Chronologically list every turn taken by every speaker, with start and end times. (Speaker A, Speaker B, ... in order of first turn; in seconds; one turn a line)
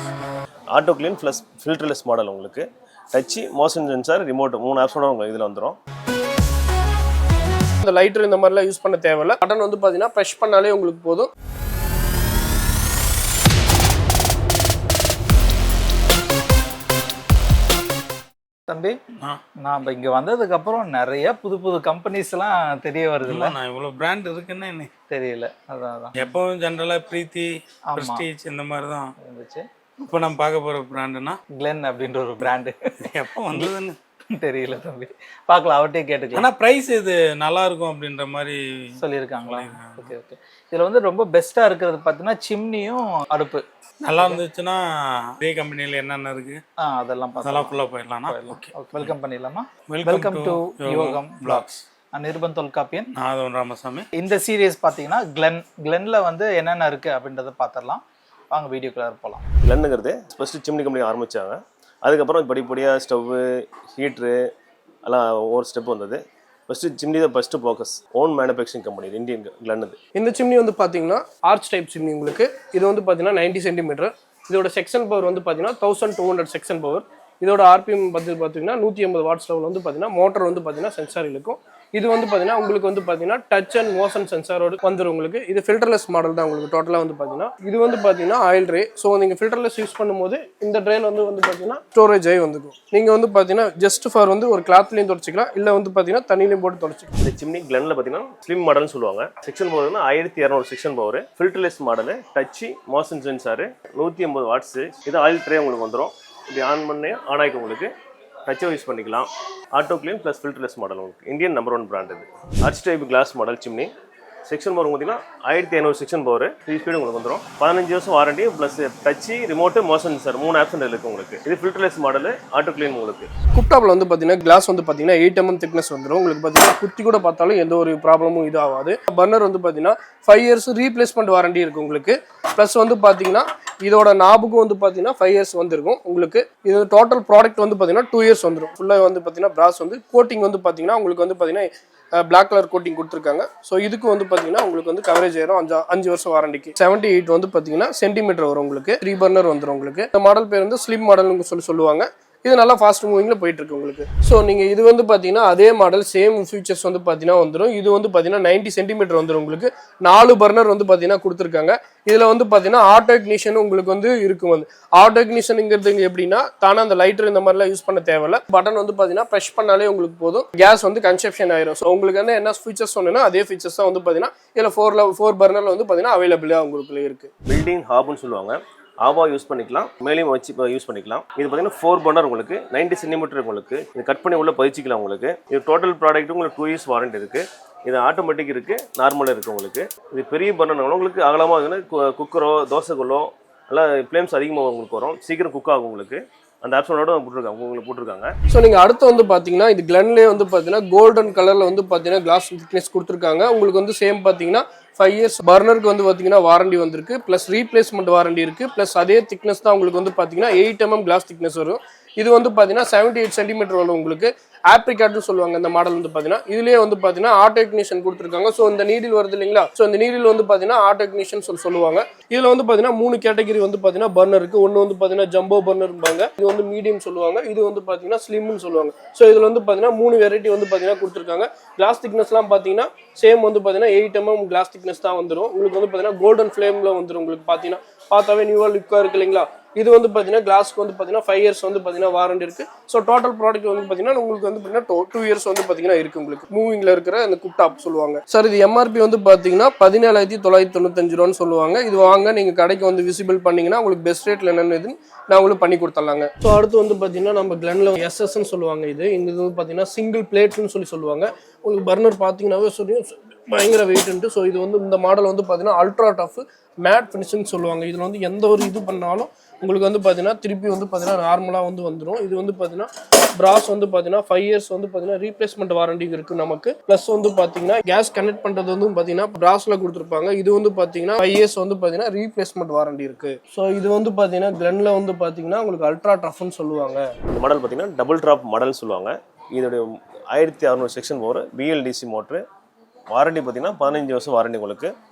Speaker A: 0.7-5.8
Speaker B: 7.8-11.3
Speaker C: 18.7-19.0
Speaker C: 19.6-23.6
Speaker D: 23.2-24.9
Speaker C: 25.1-26.3
Speaker D: 26.2-29.1
Speaker C: 27.9-28.2
Speaker C: 29.2-29.6
Speaker D: 30.0-31.4
Speaker C: 31.6-32.7
Speaker D: 33.1-34.0
Speaker C: 34.3-36.5
Speaker D: 36.3-38.6
Speaker C: 39.0-43.6
Speaker D: 39.4-40.1
Speaker D: 44.0-44.8
Speaker D: 45.4-46.6
Speaker C: 46.8-53.1
Speaker D: 47.4-49.1
Speaker D: 49.9-51.8
Speaker D: 53.2-54.1
Speaker C: 54.2-59.4
Speaker A: 59.6-64.3
Speaker A: 65.0-70.0
Speaker B: 70.1-97.1
Speaker A: 97.2-107.9
Speaker A: 108.5-113.9
Speaker A: 114.5-123.3
Speaker B: 123.5-177.3
Speaker A: 177.5-198.3
Speaker B: 198.5-287.0
Speaker A: 287.3-292.4
Speaker A: 293.1-294.9